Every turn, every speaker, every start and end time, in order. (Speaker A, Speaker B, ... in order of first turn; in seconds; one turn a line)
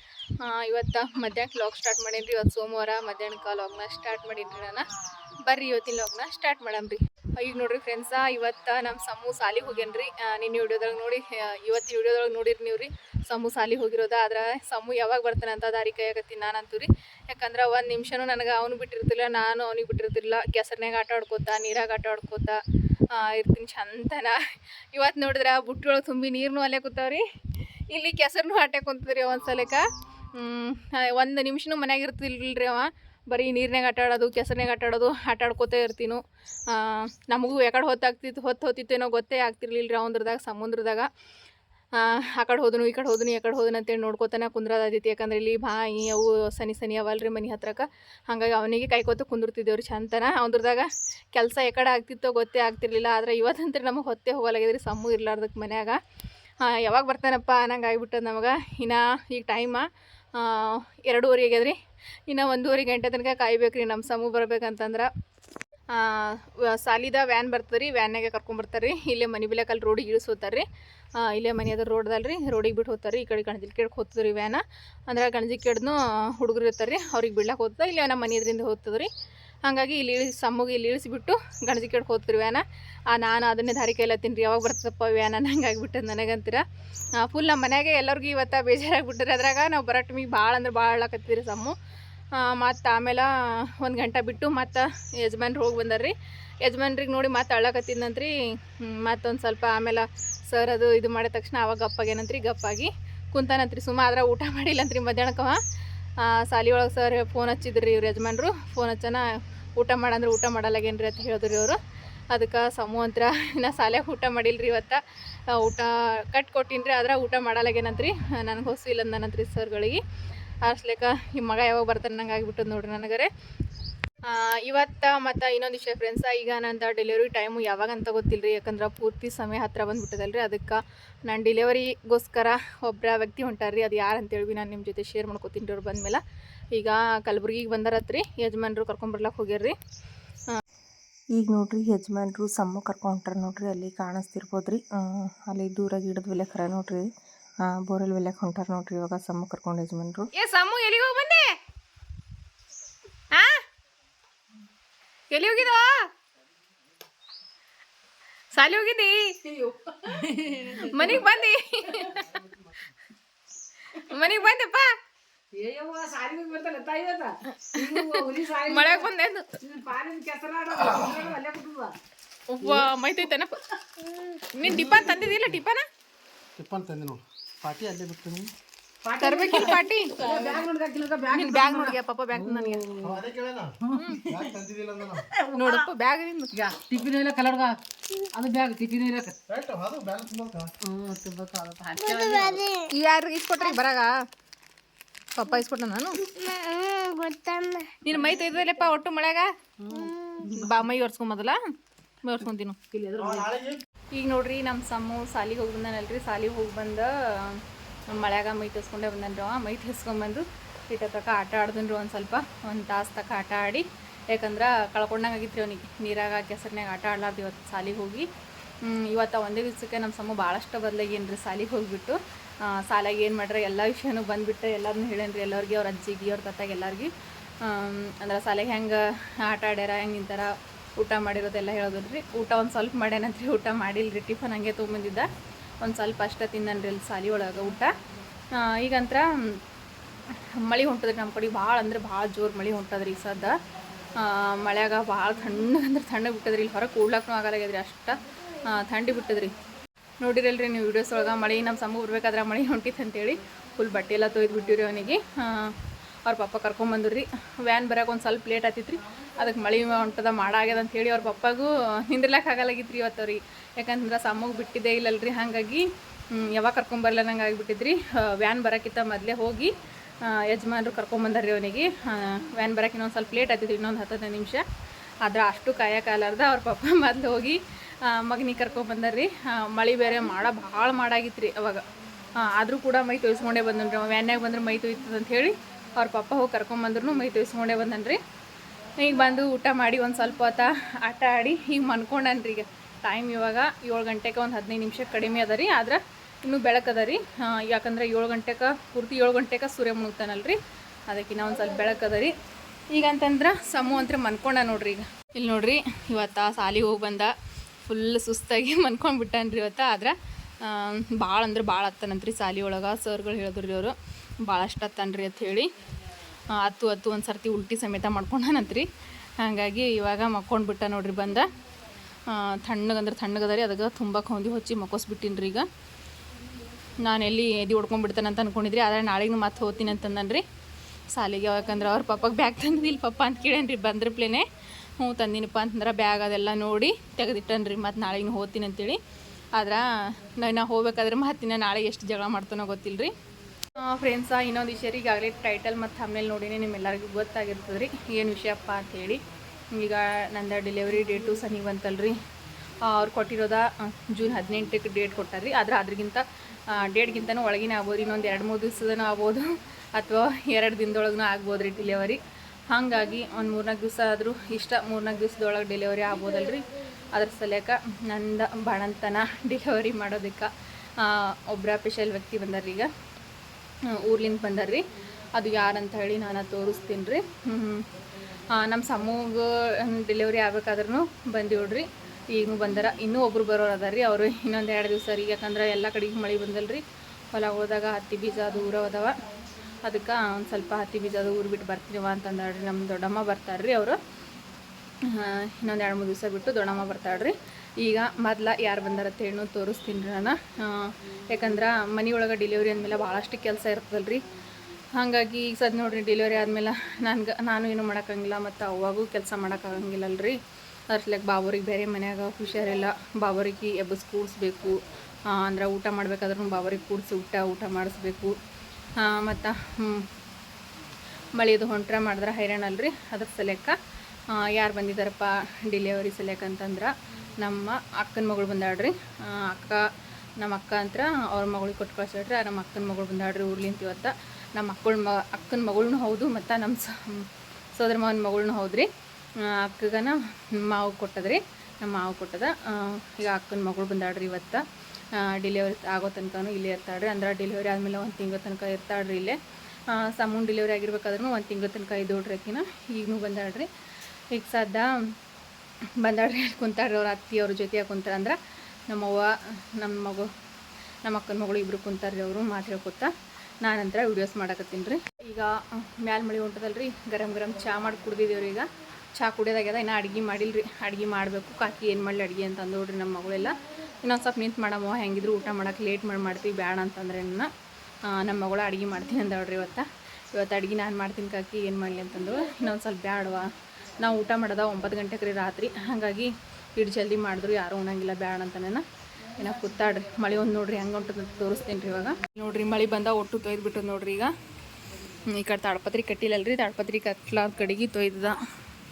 Speaker A: 0.4-4.8
Speaker A: 5.4-22.6
Speaker A: 23.1-24.4
Speaker A: 24.9-27.2
Speaker A: 27.9-41.1
Speaker A: 42.0-56.0
Speaker A: 56.6-65.1
Speaker A: 65.9-70.6
Speaker A: 71.2-79.1
Speaker A: 79.6-91.7
Speaker A: 92.3-105.6
Speaker A: 106.2-109.2
Speaker A: 109.8-111.8
Speaker A: 112.3-120.0
Speaker A: 120.6-123.3
Speaker A: 124.2-136.2
Speaker A: 136.7-139.7
Speaker B: 141.4-147.0
Speaker C: 142.4-143.5
Speaker C: 144.2-145.6
Speaker B: 147.6-150.3
Speaker A: 150.3-151.6
Speaker A: 153.3-153.6
Speaker A: 155.3-156.1
Speaker A: 158.5-159.4
Speaker D: 159.4-161.3
Speaker A: 160.8-162.4
Speaker D: 162.0-162.2
Speaker A: 163.9-164.9
Speaker D: 165.5-169.1
Speaker A: 167.5-169.6
Speaker D: 169.6-171.9
Speaker A: 172.5-173.6
Speaker B: 174.0-174.4
Speaker A: 174.5-175.8
Speaker C: 176.6-178.5
Speaker D: 179.0-183.3
Speaker A: 179.2-180.6
Speaker A: 181.3-182.8
Speaker C: 183.0-183.7
Speaker D: 183.8-184.5
Speaker A: 183.9-184.3
Speaker C: 184.3-185.2
Speaker D: 185.2-185.9
Speaker A: 185.5-186.5
Speaker D: 186.5-187.8
Speaker D: 188.3-189.4
Speaker C: 189.5-190.7
Speaker D: 190.8-192.7
Speaker B: 192.0-192.9
Speaker A: 192.9-194.1
Speaker A: 195.3-196.2
Speaker B: 196.3-198.0
Speaker A: 198.0-199.5
Speaker D: 199.8-200.8
Speaker B: 200.0-200.5
Speaker A: 200.4-201.6
Speaker A: 202.2-202.8
Speaker D: 202.9-203.6
Speaker C: 203.2-203.8
Speaker A: 204.1-218.3
Speaker A: 218.8-227.1
Speaker A: 227.6-235.3
Speaker A: 235.8-237.9
Speaker A: 238.5-239.6
Speaker A: 240.6-243.6
Speaker A: 244.2-249.5
Speaker A: 250.2-274.6
Speaker A: 275.2-281.8
Speaker A: 282.3-288.2
Speaker A: 289.0-302.3
Speaker A: 302.9-307.3
Speaker A: 307.8-315.7
Speaker A: 316.5-318.9
Speaker A: 319.4-321.5
Speaker A: 322.2-325.7
Speaker A: 327.0-330.4
Speaker A: 331.1-334.4
Speaker A: 335.0-339.0
Speaker A: 339.5-343.1
Speaker A: 343.8-352.2
Speaker A: 352.8-372.9
Speaker A: 373.9-389.1
Speaker A: 389.8-394.0
Speaker A: 395.0-404.2
Speaker A: 404.9-410.4
Speaker A: 410.9-418.3
Speaker A: 419.0-420.1
Speaker A: 421.3-423.8
Speaker A: 424.3-429.8
Speaker A: 430.4-438.9
Speaker A: 439.4-449.4
Speaker A: 449.9-453.7
Speaker A: 454.3-454.9
Speaker A: 456.0-460.3
Speaker A: 461.0-477.5
Speaker A: 478.0-488.8
Speaker A: 489.4-494.3
Speaker A: 495.2-498.4